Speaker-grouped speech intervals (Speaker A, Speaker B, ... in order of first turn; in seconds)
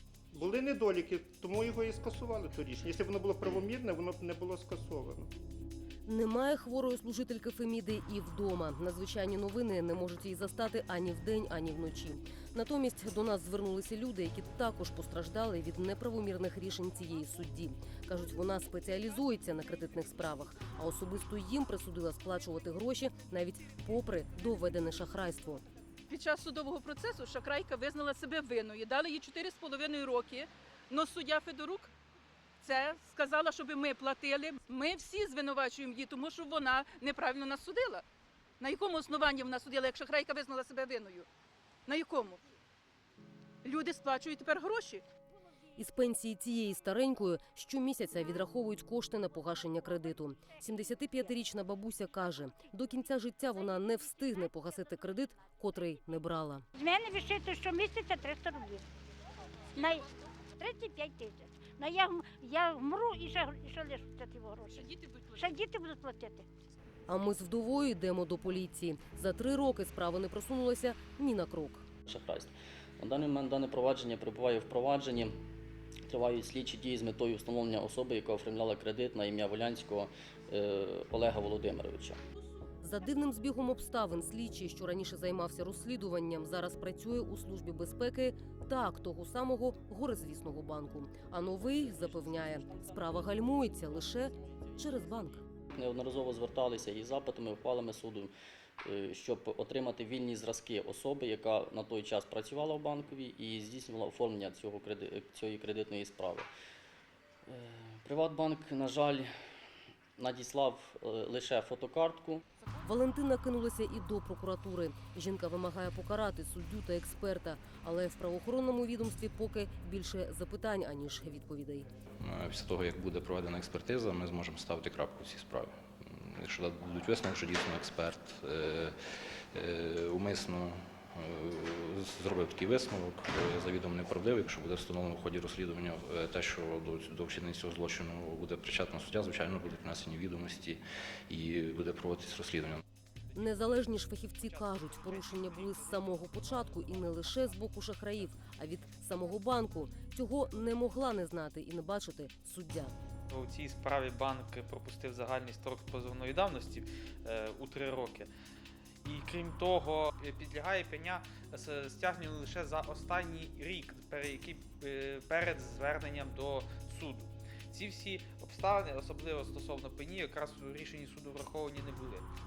Speaker A: 0.3-5.3
Speaker B: 6.0-25.6, 45.8-56.6, 67.1-71.8, 82.8-95.4, 112.8-121.9, 143.3-152.9
Speaker C: 26.1-31.9, 32.6-38.0, 38.6-41.3, 41.9-42.4, 43.6-45.0, 64.7-65.5
Speaker D: 56.8-58.8, 60.6-64.8, 65.4-66.4
Speaker E: 72.1-75.3, 76.1-82.2, 95.8-98.3, 98.8-106.5, 107.5-109.3, 110.2-112.4
Speaker F: 122.2-128.9, 129.5-142.8
Speaker G: 153.3-158.3, 159.0-172.2